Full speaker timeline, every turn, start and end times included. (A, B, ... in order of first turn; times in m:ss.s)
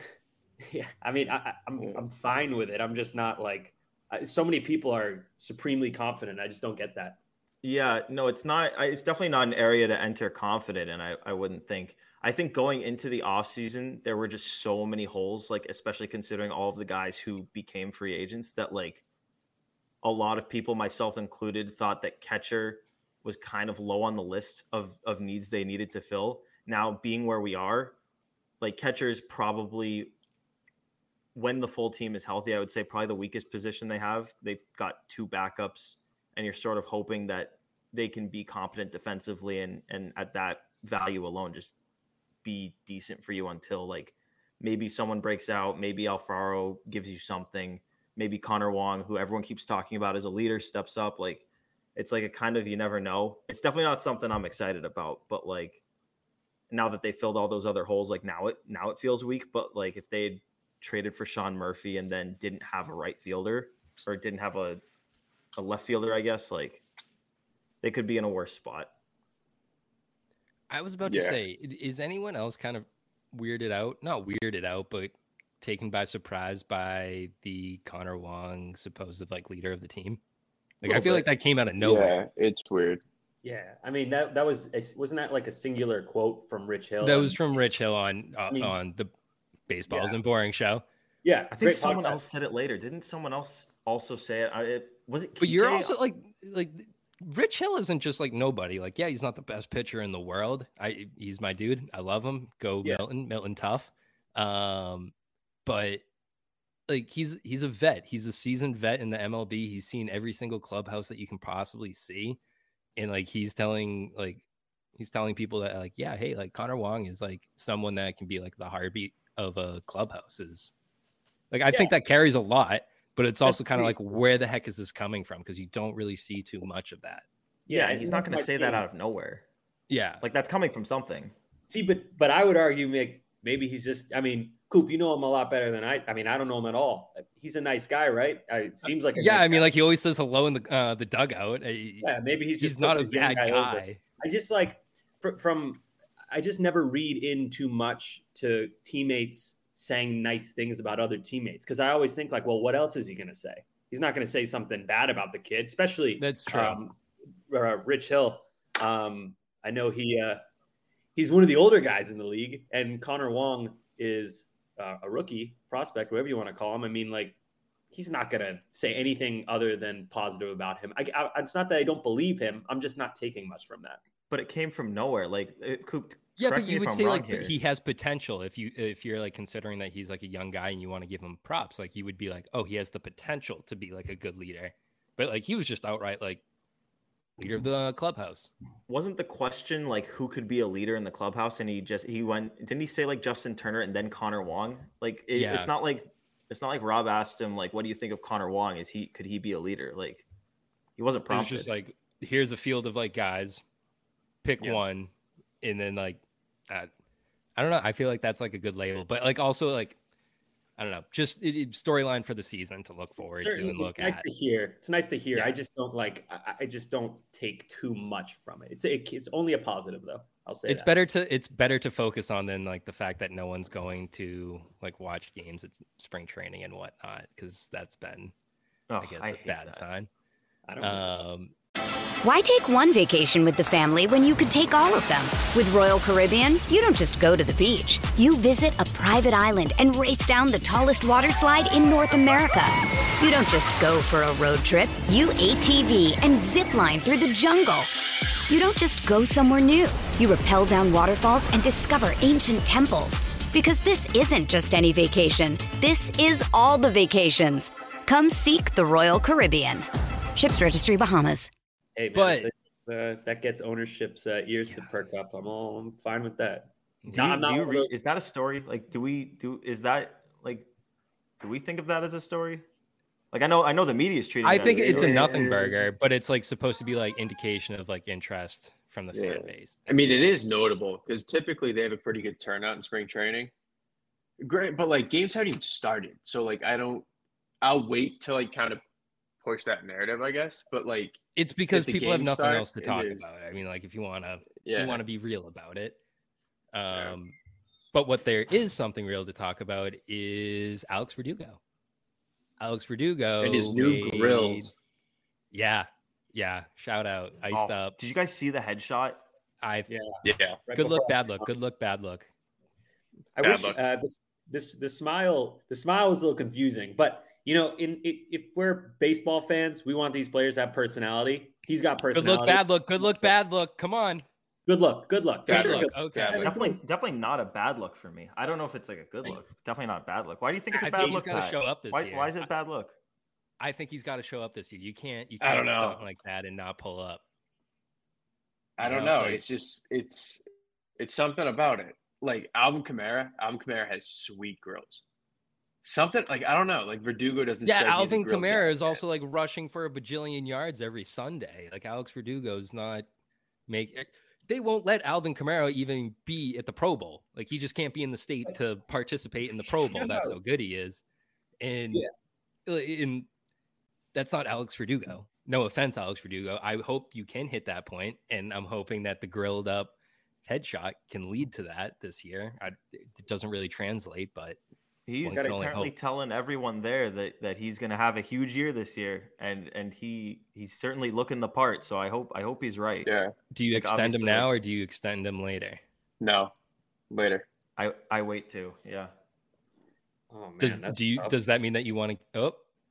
0:00.6-0:07.2 A
0:07.6-0:19.0 B
0:20.0-0:27.9 B
0:28.6-0:30.1 B
0:31.3-0:41.7 B
0:42.4-0:51.4 B
0:52.0-0:55.8 B
0:56.7-1:04.8 B
1:05.5-1:06.8 B
1:07.8-1:08.9 B
1:10.7-1:20.2 C
1:11.0-1:11.4 D
1:20.8-1:22.2 C
1:20.8-1:21.2 D
1:21.8-1:23.0 D
1:23.4-1:27.4 A
1:27.0-1:29.1 C
1:28.5-1:28.8 A
1:29.7-1:30.8 C
1:29.9-1:30.2 A
1:31.2-1:32.2 A
1:31.5-1:35.9 B
1:35.4-1:45.1 C
1:45.6-1:46.0 C
1:46.9-1:52.4 C
1:53.0-1:54.4 C
1:55.0-2:00.7 C
2:01.5-2:07.2 C
2:03.4-2:04.0 A
2:07.7-2:08.8 A
2:07.7-2:09.4 B
2:09.9-2:10.2 C
2:10.2-2:11.3 B
2:11.7-2:19.7 A
2:19.2-2:24.0 C
2:22.0-2:37.0 A
2:36.2-2:36.8 C
2:37.5-2:40.4 A
2:41.2-2:47.4 A
2:47.9-2:54.0 A
2:54.3-2:57.5 B
2:56.4-3:06.4 C
3:07.4-3:08.5 C
3:08.9-3:20.2 B
3:15.3-3:15.7 C
3:21.0-3:21.7 B
3:21.3-3:23.6 C
3:24.4-3:25.1 C
3:25.6-3:26.9 C
3:27.6-3:30.0 C
3:30.8-3:34.2 C
3:33.2-3:40.9 A
3:40.7-3:48.3 C
3:48.9-3:49.8 B
3:49.0-3:50.1 C
3:50.7-3:51.1 A
3:50.8-3:51.5 C
3:52.2-4:07.9 E
4:08.5-4:21.5 E
4:22.0-4:27.9 A
4:22.1-4:22.5 C
4:27.1-4:30.7 B
4:31.4-4:32.6 B
4:33.3-4:35.3 B
4:34.4-4:40.2 C
4:34.6-4:35.8 D
4:39.1-4:43.5 D
4:44.4-4:47.0 D
4:47.6-4:48.8 D
4:49.4-4:51.2 D
4:51.4-4:56.0 C
4:51.7-4:53.3 D
4:54.6-4:55.0 D
4:56.7-4:57.3 C
4:57.9-5:01.6 C
5:02.6-5:04.7 C
5:03.4-5:04.7 D
5:05.5-5:08.0 C
5:07.5-5:09.2 B
5:09.6-5:09.9 C
5:09.9-5:11.5 A
5:10.2-5:10.6 D
5:10.7-5:12.3 C
5:13.4-5:23.3 A
5:13.4-5:13.8 D
5:22.1-5:24.2 C
5:24.7-5:26.8 A
5:25.5-5:26.5 D
5:25.5-5:26.4 C
5:26.4-5:33.0 B
5:30.7-5:32.5 C
5:33.6-5:37.2 C
5:35.4-5:36.0 D
5:38.8-5:40.4 D
5:38.8-5:39.4 C
5:41.0-5:45.0 D
5:45.8-5:49.2 D
5:47.6-5:53.1 C
5:53.7-6:01.0 C
5:59.8-6:00.4 A
6:01.6-6:02.0 C
6:02.6-6:03.3 C
6:04.1-6:09.9 C
6:10.4-6:14.6 C
6:15.1-6:23.1 B
6:15.2-6:15.9 C
6:23.0-6:23.3 D
6:23.5-6:25.8 C
6:23.7-6:24.5 B
6:26.2-6:26.5 D
6:27.1-6:27.4 D
6:27.8-6:29.1 B
6:30.3-6:31.4 A
6:30.6-6:32.6 C